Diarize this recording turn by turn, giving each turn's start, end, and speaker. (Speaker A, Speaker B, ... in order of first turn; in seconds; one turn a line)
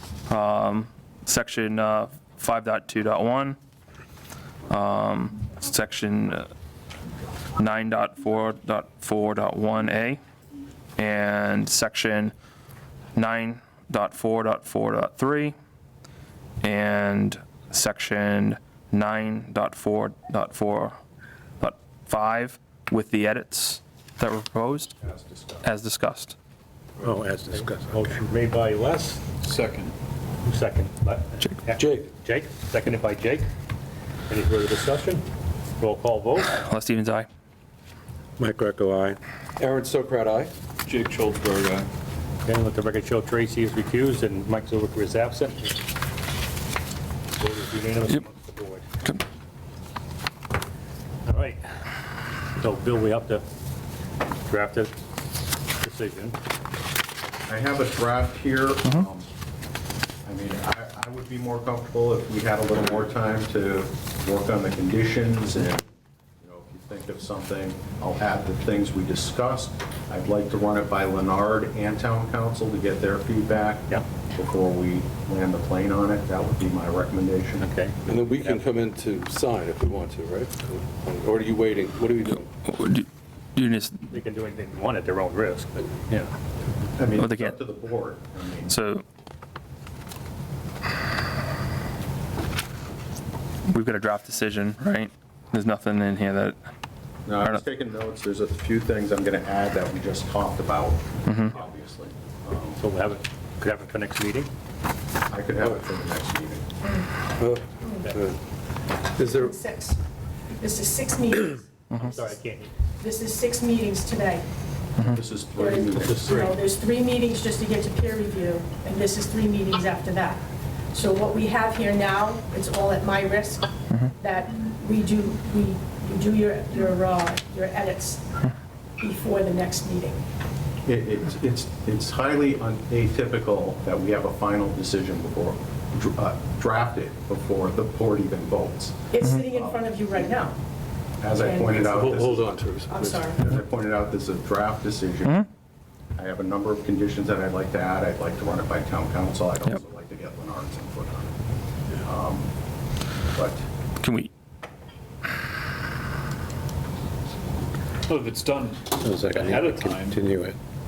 Speaker A: 0.3-3.6
Speaker A: 4.7-6.5
Speaker A: 7.6-10.2
Speaker A: 11.0-12.3
Speaker A: 13.2-15.6
Speaker A: 16.6-21.0
Speaker A: 21.6-24.9
Speaker B: 25.0-25.7
Speaker A: 25.6-26.3
Speaker C: 27.0-27.9
Speaker D: 27.5-29.2
Speaker E: 29.4-30.0
Speaker D: 30.4-33.5
Speaker F: 31.8-32.1
Speaker D: 34.3-35.2
Speaker D: 35.8-36.5
Speaker A: 36.5-37.3
Speaker C: 38.4-39.2
Speaker F: 39.6-40.5
Speaker E: 40.8-41.9
Speaker D: 42.4-45.8
Speaker D: 47.4-48.8
Speaker D: 51.2-51.6
Speaker D: 52.6-53.4
Speaker D: 54.5-54.9
Speaker D: 55.8-56.4
Speaker B: 57.5-59.3
Speaker B: 60.2-65.8
Speaker B: 66.4-77.7
Speaker D: 77.6-78.6
Speaker F: 78.0-82.5
Speaker A: 82.7-84.1
Speaker D: 84.1-86.3
Speaker B: 87.0-88.7
Speaker A: 87.2-87.6
Speaker A: 88.7-89.0
Speaker A: 93.7-96.6
Speaker B: 97.2-102.8
Speaker A: 101.3-101.5
Speaker D: 102.8-104.5
Speaker B: 105.3-106.6
Speaker G: 106.8-107.1
Speaker F: 107.4-108.4
Speaker G: 107.8-108.1
Speaker F: 109.2-109.5
Speaker G: 109.2-112.3
Speaker D: 112.0-112.7
Speaker G: 113.0-114.4
Speaker A: 115.0-115.2
Speaker B: 115.1-116.5
Speaker G: 115.6-128.2
Speaker D: 116.1-116.6
Speaker G: 129.0-130.2
Speaker B: 130.8-138.9
Speaker G: 139.1-140.6
Speaker B: 139.5-139.8
Speaker B: 141.2-145.4
Speaker G: 141.3-142.0
Speaker F: 141.6-143.2
Speaker G: 142.9-143.4
Speaker B: 146.2-151.4
Speaker B: 152.0-152.5
Speaker B: 153.3-153.6
Speaker A: 154.0-154.3
Speaker E: 158.1-160.2
Speaker C: 159.0-160.6